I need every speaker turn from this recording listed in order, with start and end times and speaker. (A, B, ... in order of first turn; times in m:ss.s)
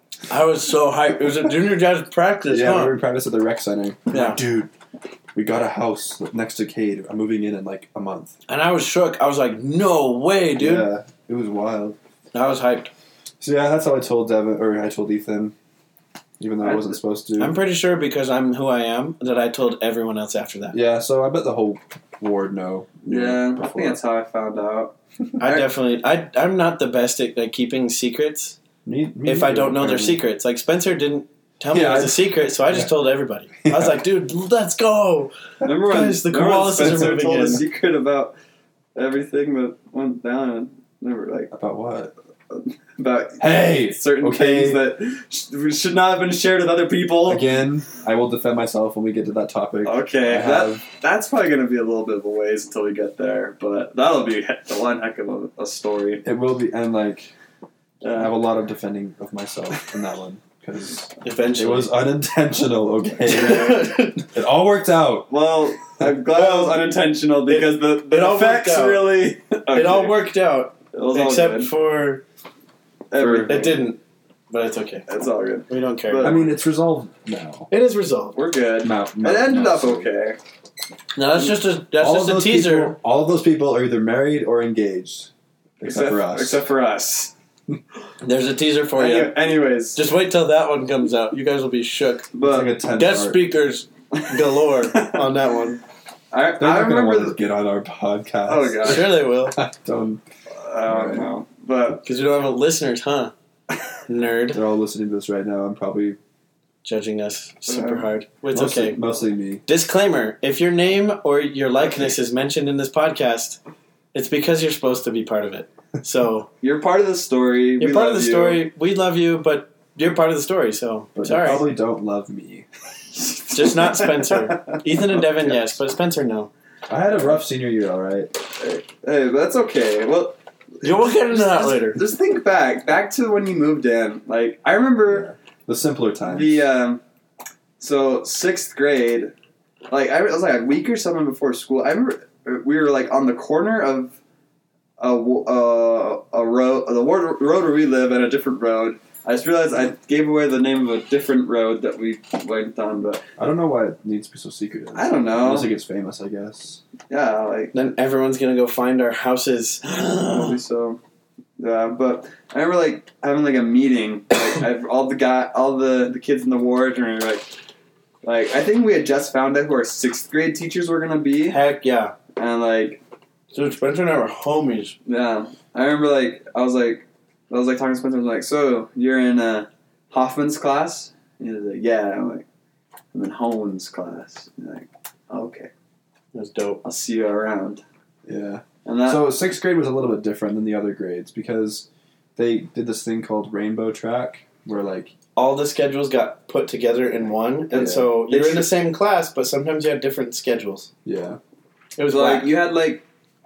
0:00.3-0:03.0 A
0:02.5-0:04.7 B
0:04.1-0:04.4 A
0:05.3-0:08.3 B
0:08.5-0:10.9 A
0:10.6-0:12.0 B
0:12.3-0:12.9 A
0:13.4-0:15.5 B
0:16.4-0:17.6 B
0:16.6-0:16.9 C
0:17.4-0:20.8 A
0:20.7-0:24.0 B
0:23.1-0:24.9 C
0:25.4-0:28.6 A
0:28.8-0:30.2 B
0:29.2-0:37.6 A
0:31.7-0:32.9 B
0:33.6-0:34.0 B
0:35.6-0:38.3 C
0:38.9-0:41.5 C
0:41.5-0:42.1 B
0:42.5-0:47.5 C
0:43.4-0:44.8 B
0:47.2-0:50.8 B
0:49.8-0:56.2 C
0:56.2-0:57.3 B
0:58.0-0:58.3 C
0:58.1-1:05.3 B
1:01.2-1:01.9 A
1:03.3-1:04.2 A
1:03.3-1:03.8 C
1:05.3-1:10.2 C
1:06.3-1:06.9 A
1:07.5-1:09.1 A
1:09.7-1:12.2 A
1:10.9-1:11.7 C
1:13.1-1:13.8 C
1:13.2-1:13.6 B
1:13.4-1:15.0 A
1:15.1-1:16.5 C
1:15.7-1:16.3 A
1:16.2-1:17.7 B
1:17.7-1:18.4 A
1:18.3-1:20.4 C
1:18.8-1:20.1 B
1:21.2-1:23.0 A
1:22.0-1:26.6 B
1:25.8-1:27.3 C
1:28.2-1:29.4 A
1:29.0-1:30.0 C
1:29.9-1:32.3 A
1:32.3-1:32.7 C
1:32.4-1:33.4 B
1:32.9-1:35.8 A
1:34.1-1:35.3 C
1:36.3-1:37.4 C
1:36.6-1:40.2 B
1:38.4-1:39.2 C
1:38.8-1:39.6 A
1:40.6-1:42.0 C
1:40.8-1:41.3 B
1:42.0-1:43.3 A
1:44.1-1:44.6 A
1:44.5-1:46.2 B
1:46.8-1:49.0 A
1:47.7-1:48.1 C
1:48.5-1:49.6 B
1:49.6-1:53.6 A
1:54.1-1:56.5 A
1:56.6-1:58.6 C
1:57.8-2:01.6 A
2:01.2-2:02.6 B
2:03.2-2:05.6 C
2:03.5-2:06.5 A
2:06.9-2:08.3 B
2:08.6-2:15.3 C
2:10.8-2:12.0 A
2:15.1-2:16.6 B
2:16.2-2:17.0 C
2:17.8-2:19.3 C
2:19.9-2:24.1 C
2:25.0-2:33.2 C
2:33.4-2:36.8 B
2:34.9-2:35.7 C
2:37.1-2:37.7 C
2:37.7-2:40.6 A
2:40.2-2:41.0 C
2:41.6-2:47.5 C
2:48.2-2:51.6 C
2:51.5-2:52.1 A
2:52.4-2:53.0 C
2:53.5-2:55.0 A
2:55.0-3:02.4 C
3:03.1-3:05.7 C
3:06.3-3:06.8 A
3:06.8-3:07.8 C
3:08.2-3:15.1 B
3:08.8-3:09.2 C
3:15.4-3:20.9 A
3:17.7-3:18.6 B
3:18.4-3:18.7 C
3:21.0-3:21.4 B
3:22.0-3:22.5 A
3:22.1-3:23.0 C